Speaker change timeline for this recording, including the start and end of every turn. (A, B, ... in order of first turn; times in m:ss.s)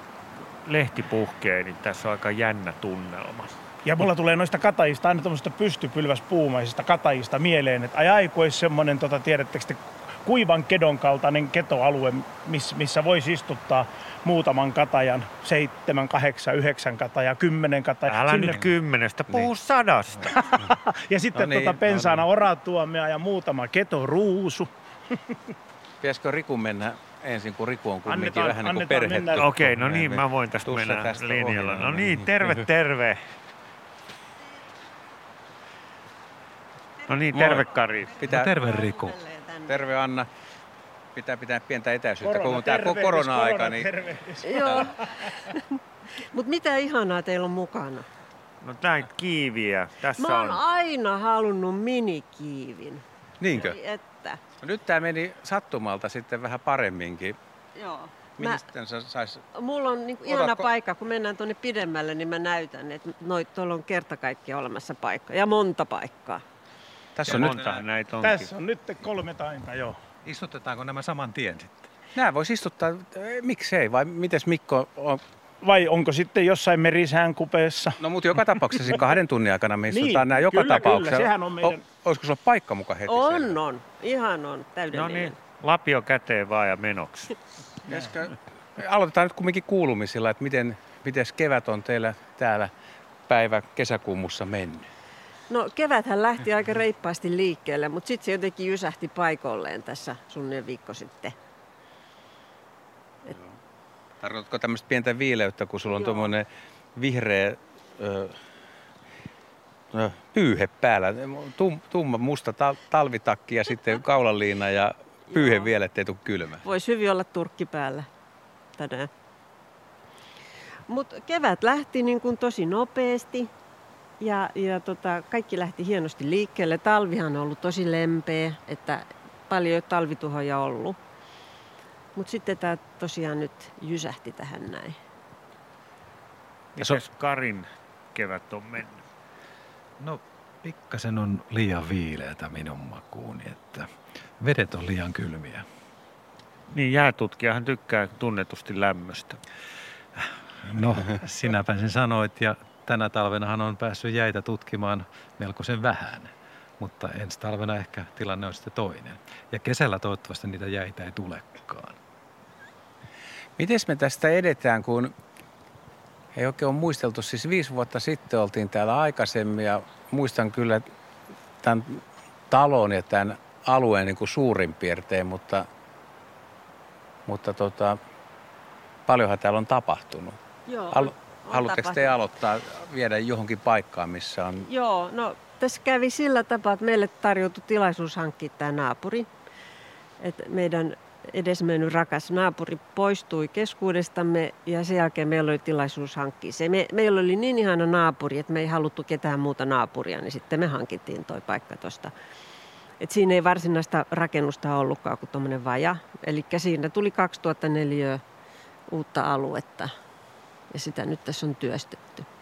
0:00.6-0:03.5 A
0:03.8-0:18.6 B
0:18.1-0:20.3 A
0:20.3-0:25.4 B
0:21.3-0:22.2 C
0:26.0-0:32.6 C
0:28.0-0:29.4 B
0:29.4-0:33.2 A
0:37.1-0:38.2 A
0:37.3-0:38.5 C
0:38.2-0:39.7 D
0:38.2-0:39.2 E
0:39.7-0:40.3 C
0:41.1-0:43.9 C
0:42.2-0:45.3 B
0:44.4-0:45.0 D
0:45.5-0:48.0 D
0:48.6-0:50.6 A
0:50.2-0:54.4 D
0:53.4-0:53.8 C
0:54.6-0:57.4 C
0:57.8-0:58.6 D
0:58.4-0:59.4 C
0:59.5-1:06.4 D
1:00.3-1:00.6 C
1:07.2-1:07.8 C
1:07.2-1:08.5 A
1:08.2-1:10.0 B
1:10.2-1:11.9 E
1:12.1-1:15.2 C
1:15.6-1:18.0 B
1:18.0-1:23.6 C
1:18.7-1:19.0 B
1:19.9-1:21.8 B
1:23.1-1:25.4 D
1:24.9-1:27.4 A
1:27.9-1:32.7 C
1:33.3-1:34.8 C
1:35.5-1:41.3 D
1:44.2-1:48.4 C
1:49.9-1:56.6 C
1:55.3-1:55.7 D
1:56.6-1:58.1 D
1:58.8-1:59.1 D
2:00.9-2:03.5 D
2:04.2-2:11.0 D
2:12.2-2:15.0 D
2:16.8-2:19.0 A
2:20.0-2:23.9 E
2:24.4-2:25.6 E
2:26.7-2:29.4 A
2:30.6-2:42.0 E
2:43.6-2:45.1 C
2:46.3-2:50.9 C
2:51.6-2:55.7 C
2:57.2-2:58.0 C
2:59.1-3:00.4 C
3:00.7-3:02.1 D
3:00.9-3:04.6 C
3:04.6-3:09.3 D
3:10.2-3:22.1 D
3:23.0-3:28.2 D
3:28.9-3:29.9 D
3:30.7-3:32.2 D